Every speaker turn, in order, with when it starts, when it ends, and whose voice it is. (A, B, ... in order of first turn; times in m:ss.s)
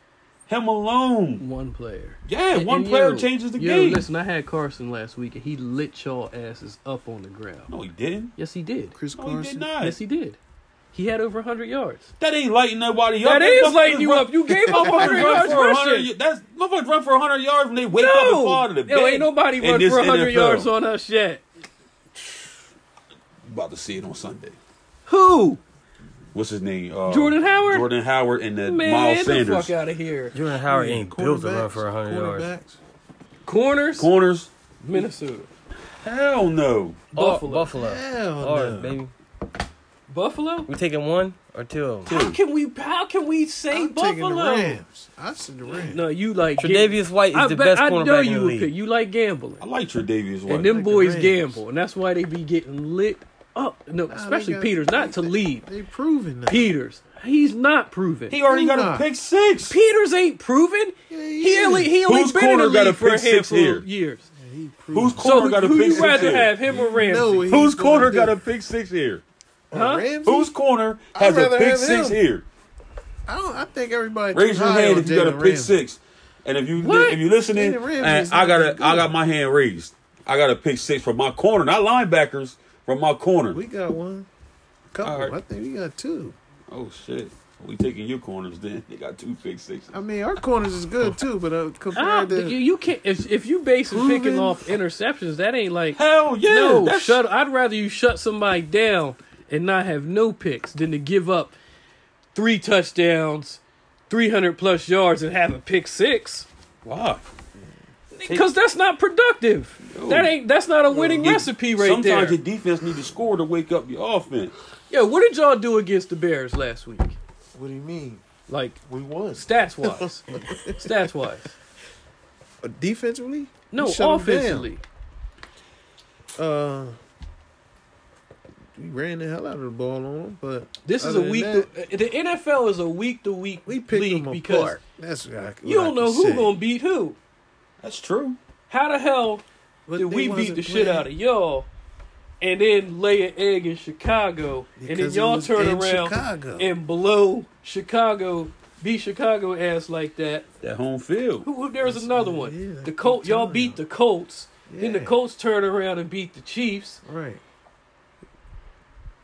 0:00.5-0:01.4 A
0:01.4-0:07.7 B
0:02.3-0:04.0 A
0:07.7-0:08.3 A
0:08.4-0:09.0 B
0:09.0-0:09.7 C
0:09.2-0:10.0 A
0:09.8-0:10.4 B
0:10.9-0:12.1 B
0:12.2-0:20.7 A
0:13.2-0:16.1 B
0:14.7-0:15.6 C
0:18.0-0:21.4 B
0:23.5-0:24.6 A
0:25.1-0:25.6 B
0:26.3-0:29.7 A
0:27.1-0:27.9 B
0:28.6-0:30.4 B
0:30.3-0:32.5 D
0:30.6-0:32.8 C
0:33.4-0:34.1 B
0:34.0-0:34.5 A
0:34.8-0:35.5 B
0:36.0-0:37.1 A
0:37.1-0:37.7 B
0:37.2-0:39.1 D
0:37.7-0:39.0 C
0:40.1-0:40.7 B
0:40.7-0:42.1 D
0:42.1-0:44.8 B
0:42.1-0:42.4 A
0:43.7-0:46.1 C
0:45.7-0:49.6 B
0:46.6-0:48.7 D
0:49.6-0:50.7 A
0:50.5-0:55.7 B
0:50.6-0:51.6 C
0:54.1-0:56.7 C
0:56.5-0:58.4 B
0:58.3-0:59.8 A
0:58.4-0:59.1 C
0:59.7-1:04.3 B
1:01.1-1:02.0 C
1:02.0-1:03.9 A
1:04.3-1:08.4 C
1:04.9-1:06.7 A
1:05.2-1:07.5 B
1:07.3-1:09.2 A
1:09.7-1:10.5 C
1:09.7-1:10.1 B
1:10.2-1:12.4 A
1:11.1-1:12.2 C
1:13.3-1:15.8 C
1:14.3-1:23.6 A
1:16.8-1:17.2 B
1:17.5-1:19.2 C
1:23.5-1:24.3 C
1:24.9-1:26.4 C
1:25.0-1:25.4 A
1:26.7-1:30.0 A
1:29.9-1:32.6 C
1:31.9-1:41.6 B
1:33.9-1:34.6 C
1:36.0-1:37.2 A
1:42.3-1:46.5 B
1:46.8-1:47.2 A
1:48.1-1:52.4 B
1:49.9-1:50.3 A
1:50.9-1:51.4 C
1:51.0-1:54.5 A
1:54.9-1:57.2 B
1:57.5-2:01.1 C
1:58.5-1:58.8 B
1:59.4-2:01.5 B
2:02.6-2:04.7 C
2:03.7-2:04.8 B
2:06.4-2:07.0 C
2:08.8-2:11.7 C
2:10.8-2:14.8 B
2:13.7-2:16.6 C
2:15.6-2:17.2 B
2:17.8-2:18.4 A
2:18.7-2:19.4 B
2:19.9-2:21.1 C
2:20.0-2:21.7 B
2:22.4-2:30.5 B
2:24.8-2:26.7 C
2:30.6-2:31.5 A
2:31.4-2:37.0 B
2:31.8-2:33.8 C
2:34.7-2:35.2 C
2:37.0-2:37.4 C